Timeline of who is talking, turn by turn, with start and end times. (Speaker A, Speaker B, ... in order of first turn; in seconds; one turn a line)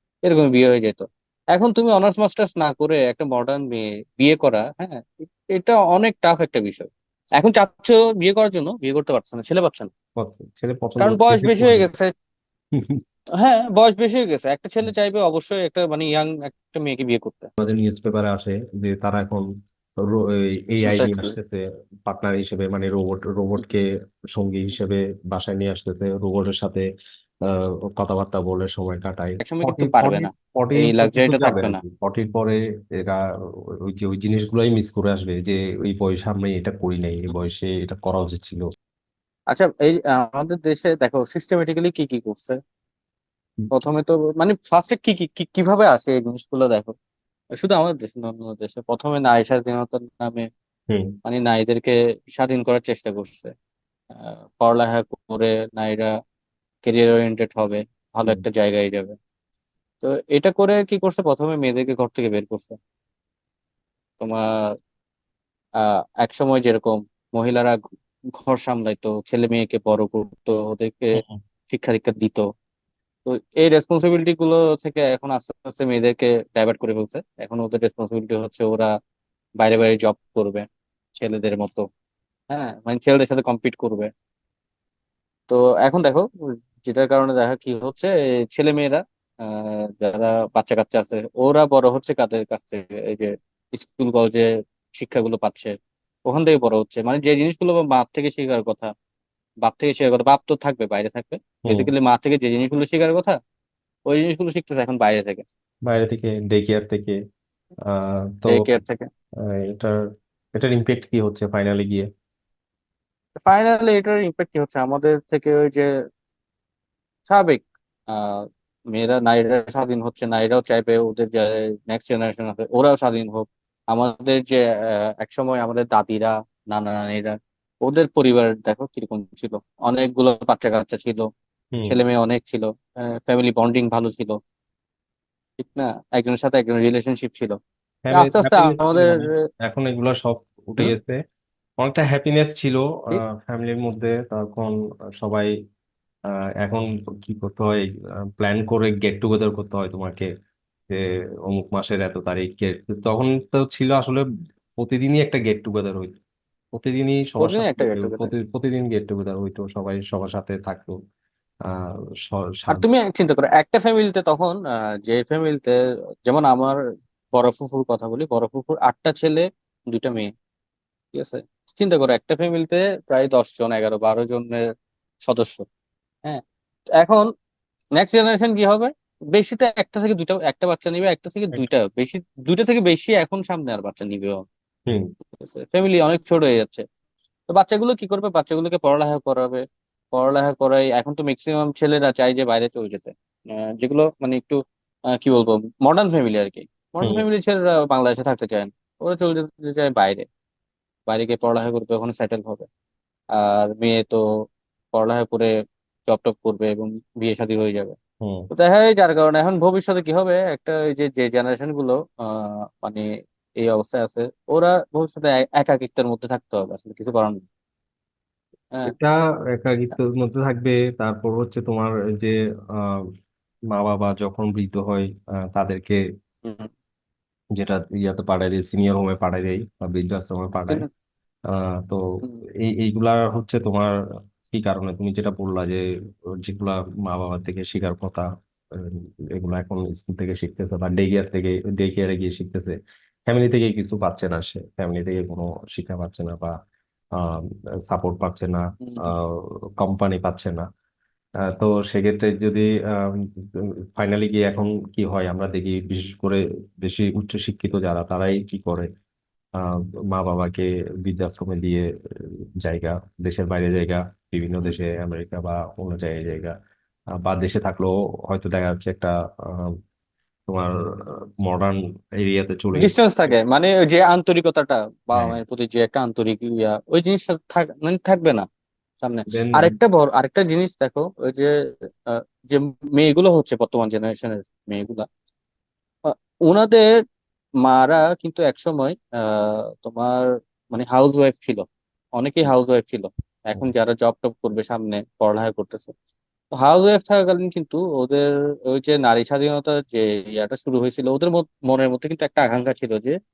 Speaker A: 0.2-9.9
Speaker B: 10.2-11.9
Speaker A: 11.0-12.1
Speaker B: 12.7-13.0
Speaker A: 13.4-17.5
Speaker B: 17.6-19.5
Speaker B: 20.0-26.9
Speaker A: 20.8-21.4
Speaker B: 27.4-33.2
Speaker A: 29.4-31.8
Speaker B: 33.9-38.6
Speaker A: 39.5-42.6
Speaker A: 43.7-47.0
Speaker A: 47.6-50.5
Speaker B: 50.9-51.1
Speaker A: 51.3-53.5
Speaker A: 54.1-56.1
Speaker A: 56.9-59.1
Speaker A: 60.0-62.8
Speaker A: 64.2-64.7
Speaker A: 65.8-67.8
Speaker A: 68.4-72.5
Speaker A: 73.2-78.9
Speaker A: 79.6-80.7
Speaker A: 81.2-81.9
Speaker A: 82.5-84.1
Speaker A: 85.5-95.7
Speaker A: 96.3-98.9
Speaker A: 99.6-103.4
Speaker B: 101.7-101.9
Speaker A: 104.1-105.5
Speaker B: 105.9-107.2
Speaker B: 107.9-108.6
Speaker A: 108.5-109.1
Speaker B: 109.5-110.0
Speaker B: 110.5-112.1
Speaker A: 113.4-115.9
Speaker A: 117.3-131.3
Speaker B: 131.7-132.0
Speaker A: 131.8-134.4
Speaker A: 135.6-137.6
Speaker B: 138.1-141.2
Speaker A: 138.1-139.3
Speaker B: 141.8-145.5
Speaker B: 146.6-150.3
Speaker B: 150.9-154.2
Speaker B: 154.8-156.1
Speaker B: 156.7-161.0
Speaker A: 157.4-158.3
Speaker B: 161.7-162.8
Speaker A: 162.7-165.8
Speaker A: 166.3-166.8
Speaker A: 167.3-170.3
Speaker A: 171.1-174.6
Speaker A: 175.2-175.7
Speaker A: 177.0-177.3
Speaker A: 178.0-184.4
Speaker A: 185.4-186.8
Speaker A: 187.5-193.1
Speaker A: 193.8-194.6
Speaker A: 195.1-200.2
Speaker A: 201.1-202.7
Speaker A: 203.3-204.2
Speaker A: 204.9-205.5
Speaker A: 206.1-208.0
Speaker B: 208.2-208.5
Speaker A: 208.5-213.1
Speaker A: 213.6-217.4
Speaker B: 218.8-223.1
Speaker B: 223.7-226.0
Speaker A: 226.4-226.7
Speaker B: 227.6-230.8
Speaker B: 231.5-233.9
Speaker B: 234.5-235.8
Speaker B: 236.4-242.8
Speaker B: 243.3-246.5
Speaker B: 247.2-250.7
Speaker A: 248.8-249.2
Speaker B: 251.6-258.9
Speaker B: 259.6-261.9
Speaker B: 262.6-266.6
Speaker B: 267.2-269.8
Speaker B: 270.5-273.4
Speaker A: 272.8-278.5
Speaker A: 279.0-285.1
Speaker B: 279.3-279.8
Speaker A: 286.1-286.9
Speaker A: 287.6-295.9
Speaker A: 296.6-303.2